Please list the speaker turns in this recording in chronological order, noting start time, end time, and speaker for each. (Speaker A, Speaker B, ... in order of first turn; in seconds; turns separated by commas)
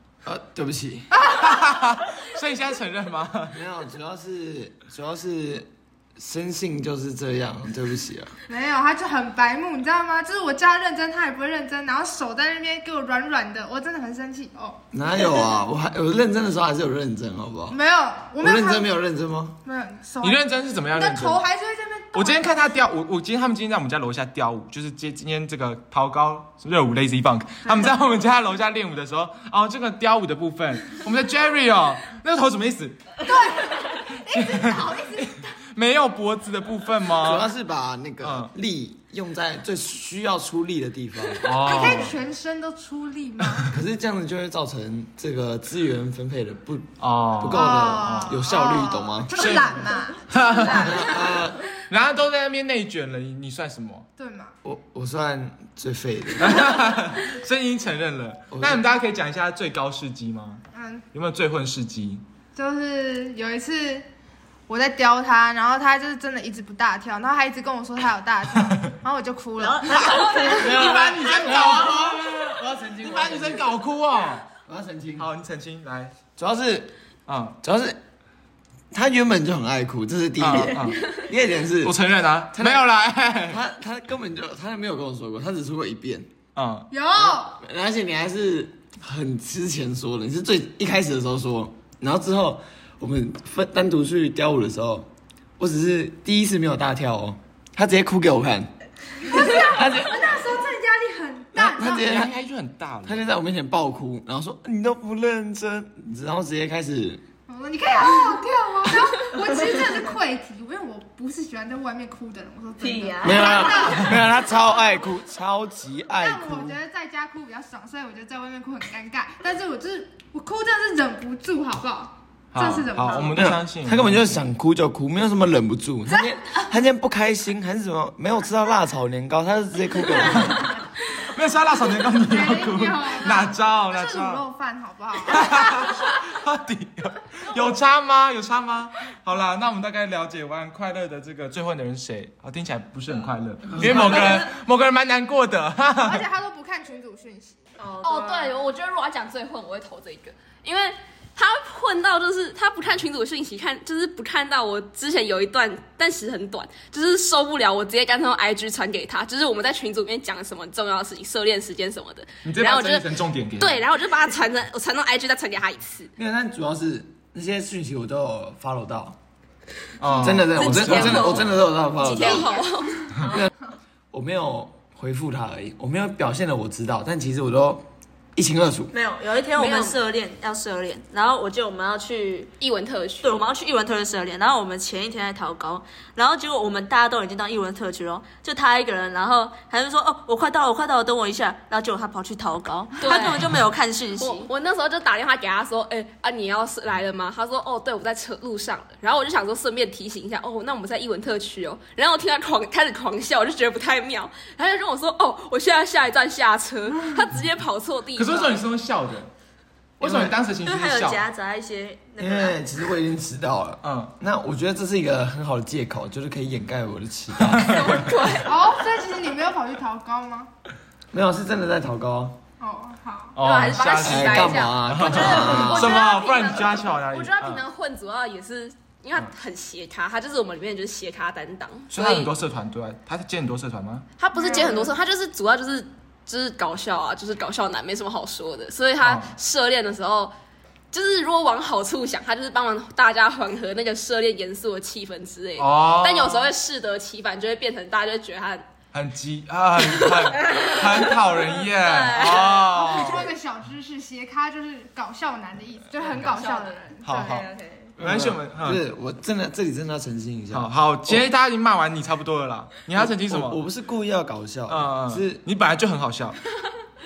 Speaker A: 0.2-1.1, Speaker B: 1.2-1.5, Speaker C: 1.3-3.6, Speaker A: 3.5-8.3, Speaker B: 8.5-14.8, Speaker A: 14.9-17.8, Speaker B: 17.7-18.9, Speaker A: 18.4-19.6, Speaker B: 19.6-20.4, Speaker C: 20.2-21.4, Speaker B: 20.9-22.6, Speaker C: 22.1-33.4, Speaker B: 33.2-35.4, Speaker C: 34.3-37.5, Speaker A: 37.2-42.1, Speaker C: 38.2-38.5, Speaker C: 41.4-42.2, Speaker B: 41.5-43.7, Speaker A: 43.7-49.6, Speaker C: 47.0-48.4, Speaker B: 47.5-51.4, Speaker C: 49.3-51.2, Speaker A: 50.7-51.6, Speaker C: 51.9-54.1, Speaker B: 54.2-54.5, Speaker A: 54.6-56.7, Speaker C: 56.4-62.2, Speaker A: 58.5-58.8, Speaker B: 60.7-61.0, Speaker B: 62.5-64.1, Speaker B: 64.7-70.6, Speaker D: 69.6-70.7, Speaker C: 69.9-74.5, Speaker A: 70.5-73.7, Speaker A: 74.6-75.3, Speaker C: 75.2-76.2, Speaker A: 76.4-76.9, Speaker C: 77.3-77.6, Speaker A: 77.6-78.0, Speaker A: 78.9-82.0, Speaker C: 80.4-81.1, Speaker C: 81.8-83.6, Speaker A: 82.5-82.8, Speaker A: 83.5-86.3, Speaker C: 86.5-86.9, Speaker B: 86.9-87.6, Speaker A: 87.2-98.7, Speaker B: 99.3-102.1, Speaker A: 99.3-100.4, Speaker A: 101.5-102.3, Speaker C: 101.8-103.3, Speaker A: 103.0-107.2, Speaker B: 107.5-114.5, Speaker D: 112.8-113.9, Speaker A: 113.2-116.8, Speaker B: 116.2-123.3, Speaker C: 122.5-124.4, Speaker A: 123.3-130.8, Speaker C: 130.3-134.4, Speaker B: 132.2-136.0, Speaker C: 135.3-146.2, Speaker A: 143.7-144.4, Speaker B: 146.0-147.6, Speaker D: 147.8-148.6, Speaker E: 148.0-163.1, Speaker C: 162.4-163.9, Speaker E: 163.6-166.1, Speaker A: 166.2-169.2, Speaker C: 170.0-171.6, Speaker A: 170.2-172.5, Speaker E: 170.5-173.1, Speaker A: 173.2-173.5, Speaker A: 174.1-178.9, Speaker D: 178.9-182.5, Speaker E: 179.6-180.0, Speaker E: 182.6-183.4, Speaker D: 183.2-194.5, Speaker E: 193.0-193.5, Speaker E: 194.2-208.6, Speaker C: 208.2-209.3, Speaker C: 210.0-211.2, Speaker A: 210.0-210.3, Speaker D: 210.6-212.6, Speaker A: 212.2-217.8, Speaker C: 213.8-214.1, Speaker C: 217.5-218.1, Speaker E: 217.6-218.6, Speaker B: 218.4-220.5, Speaker A: 221.1-222.4, Speaker B: 222.6-223.4, Speaker C: 223.3-227.6, Speaker E: 223.4-232.3, Speaker A: 224.0-226.0, Speaker C: 231.9-234.1, Speaker E: 234.2-240.3, Speaker B: 234.3-234.9, Speaker C: 239.0-239.3, Speaker E: 240.9-248.7, Speaker C: 245.6-246.5, Speaker C: 248.9-253.3, Speaker E: 250.0-250.8, Speaker E: 251.8-252.9, Speaker B: 252.7-257.5, Speaker D: 256.1-257.9, Speaker C: 257.0-257.5, Speaker C: 258.0-258.8, Speaker A: 258.0-261.2, Speaker C: 260.5-263.6, Speaker A: 263.0-265.4, Speaker C: 264.7-266.4